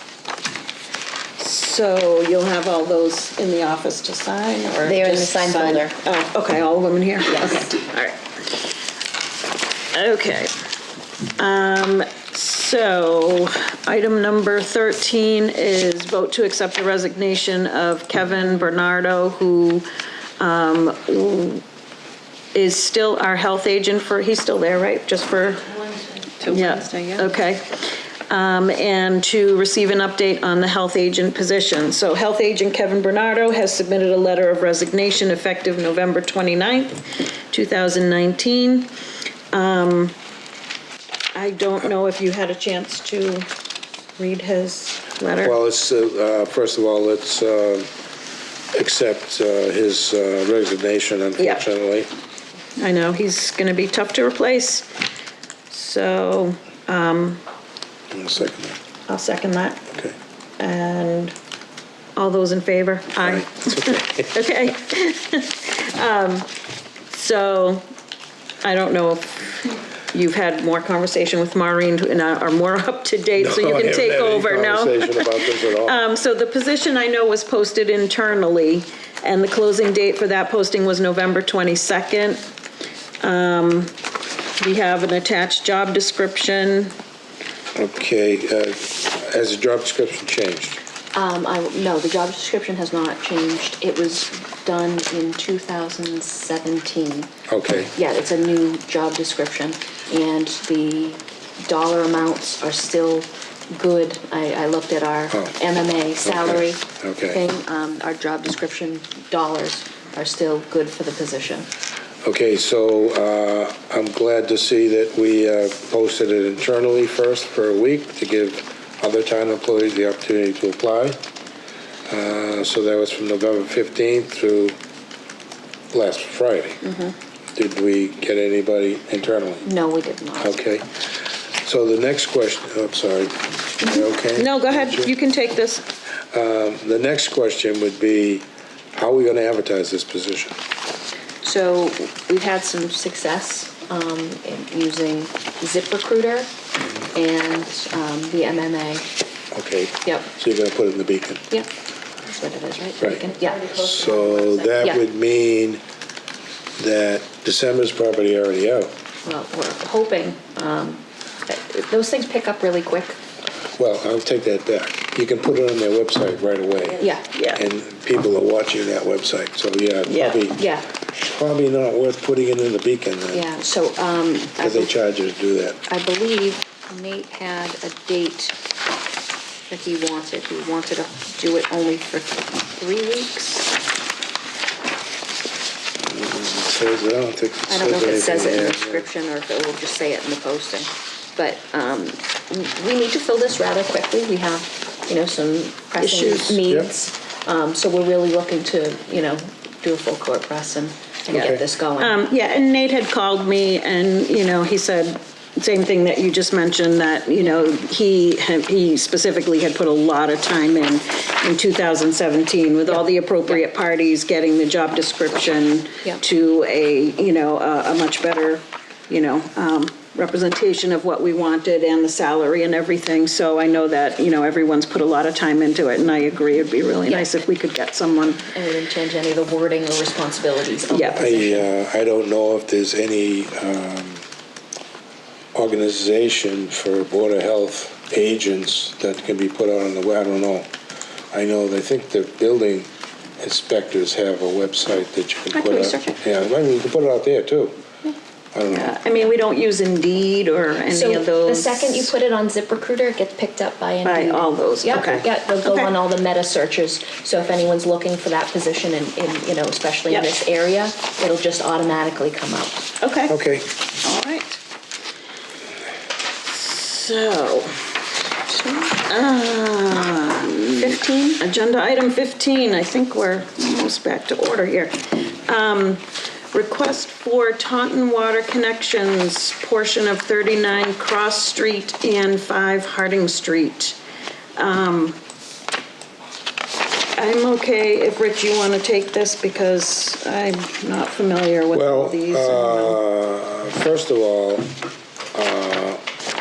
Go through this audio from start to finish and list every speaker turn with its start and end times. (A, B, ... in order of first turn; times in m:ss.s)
0:01.4-0:08.2 A
0:04.8-0:06.0 B
0:07.3-0:07.7 B
0:09.9-0:10.5 A
0:11.4-0:19.9 A
0:20.4-0:21.6 A
0:22.5-0:25.8 A
0:25.8-0:27.3 B
0:26.5-0:38.9 A
0:39.5-0:40.2 A
0:41.3-0:43.5 A
0:44.2-0:45.6 A
0:45.4-0:47.9 C
0:48.7-0:52.1 C
0:51.4-0:51.6 A
0:52.8-0:54.9 A
0:55.7-0:57.4 A
0:58.1-0:58.8 C
0:59.1-0:59.8 A
0:59.9-1:00.2 C
1:00.6-1:01.3 A
1:02.1-1:06.5 A
1:03.2-1:04.5 C
1:07.1-1:07.8 A
1:08.6-1:09.5 A
1:10.1-1:22.4 A
1:13.4-1:16.0 C
1:23.2-1:23.9 A
1:24.6-1:26.9 A
1:27.7-1:30.8 C
1:31.1-1:37.3 B
1:37.5-1:37.9 C
1:37.9-1:51.7 B
1:46.2-1:47.4 C
1:52.2-2:01.2 C
2:02.1-2:04.8 C
2:05.9-2:06.8 C
2:07.6-2:09.7 C
2:09.6-2:10.6 B
2:10.4-2:10.9 C
2:11.6-2:15.1 C
2:14.3-2:15.8 A
2:16.3-2:20.6 C
2:21.4-2:26.5 B
2:27.1-2:29.1 B
2:29.5-2:31.4 C
2:30.0-2:30.3 B
2:32.2-2:35.0 B
2:33.0-2:35.8 C
2:36.8-2:38.9 C
2:39.2-2:43.2 B
2:43.8-2:47.0 C
2:47.0-2:47.2 B
2:47.3-2:47.6 A
2:47.6-2:53.4 C
2:50.0-2:50.4 A
2:50.6-2:50.8 B
2:53.3-2:54.9 B
2:54.6-2:55.8 C
2:55.9-2:58.6 B
2:59.7-3:03.8 B
3:06.1-3:09.0 C
3:07.7-3:22.2 B
3:16.0-3:16.6 A
3:16.6-3:16.9 C
3:21.3-3:21.6 C
3:21.3-3:48.5 A
3:48.4-3:51.6 B
3:50.9-3:51.4 A
3:51.2-3:54.2 C
3:55.5-4:00.7 C
4:01.3-4:02.9 C
4:03.4-4:07.7 C
4:05.5-4:06.2 B
4:08.5-4:08.9 C
4:08.7-4:12.1 A
4:10.9-4:22.9 B
4:14.0-4:15.9 A
4:20.1-4:20.4 A
4:23.0-4:23.4 A
4:23.3-4:23.7 C
4:23.9-4:24.6 A
4:26.4-4:27.9 A
4:28.5-4:44.0 A
4:30.8-4:31.4 B
4:44.6-4:45.2 A
4:47.2-4:53.0 A
4:51.7-4:54.7 C
4:55.3-4:56.0 C